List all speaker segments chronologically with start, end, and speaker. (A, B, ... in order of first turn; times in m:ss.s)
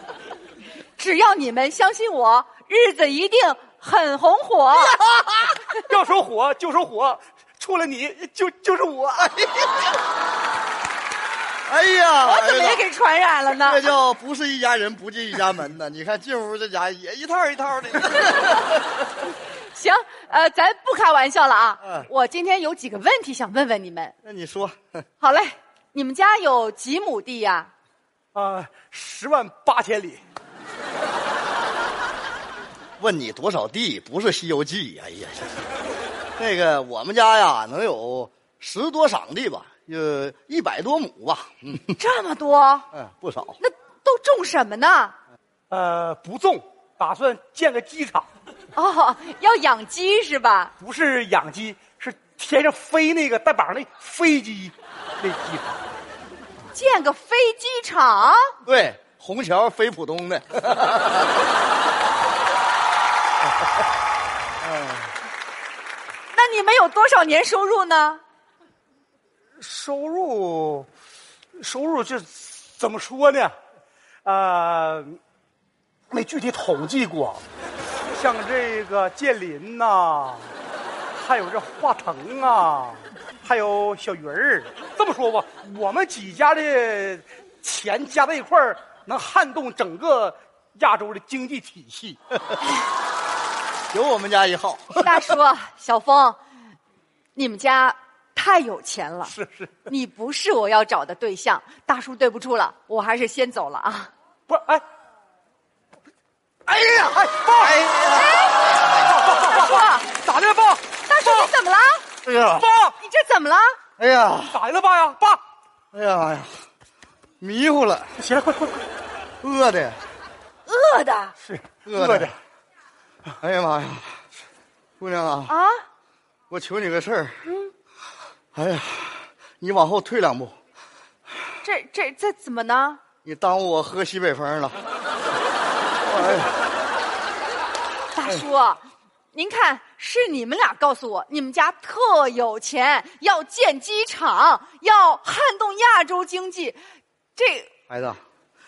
0:01.0-0:05.0 A
0:05.7-0:09.8 B
0:11.6-0:12.8 C
0:12.2-0:13.8 A
0:13.6-0:18.8 C
0:19.7-0:24.1 A
0:24.2-0:25.0 C
0:25.2-0:27.7 A
0:28.3-0:30.2 B
0:33.0-0:35.6 C
0:36.4-0:41.9 C
0:41.9-0:42.9 A
0:42.9-0:43.6 C
0:43.6-0:45.1 A
0:45.7-0:48.3 B
0:48.7-0:50.7 A
0:50.8-0:55.8 B
0:56.7-0:58.4 A
0:58.6-1:01.3 C
1:04.6-1:05.1 C
1:06.3-1:08.2 A
1:09.6-1:10.9 B
1:11.6-1:13.5 B
1:14.2-1:15.2 B
1:16.1-1:17.4 B
1:18.1-1:20.5 B
1:21.1-1:32.2 B
1:33.9-1:35.1 C
1:35.0-1:36.4 A
1:37.4-1:39.3 A
1:39.3-1:39.8 B
1:39.8-1:44.1 A
1:44.5-1:44.8 B
1:46.7-1:47.9 B
1:47.5-1:48.2 C
1:48.0-1:48.7 A
1:48.9-1:50.8 B
1:49.2-1:50.2 A
1:51.0-1:52.0 A
1:52.2-1:52.6 C
1:52.5-1:52.9 B
1:53.0-1:53.8 A
1:54.0-1:54.6 C
1:54.5-1:55.4 B
1:55.9-1:56.6 C
1:57.4-1:58.2 C
1:58.2-1:58.8 B
1:59.4-2:00.0 C
2:00.7-2:01.4 A
2:01.4-2:02.4 B
2:01.8-2:02.3 C
2:03.4-2:04.2 C
2:05.0-2:05.5 C
2:05.5-2:05.8 A
2:06.5-2:07.5 C
2:08.5-2:10.5 C
2:11.6-2:13.0 A
2:13.2-2:14.8 C
2:16.1-2:16.5 C
2:18.1-2:18.8 A
2:19.3-2:26.8 A
2:27.4-2:27.7 A
2:27.9-2:28.2 C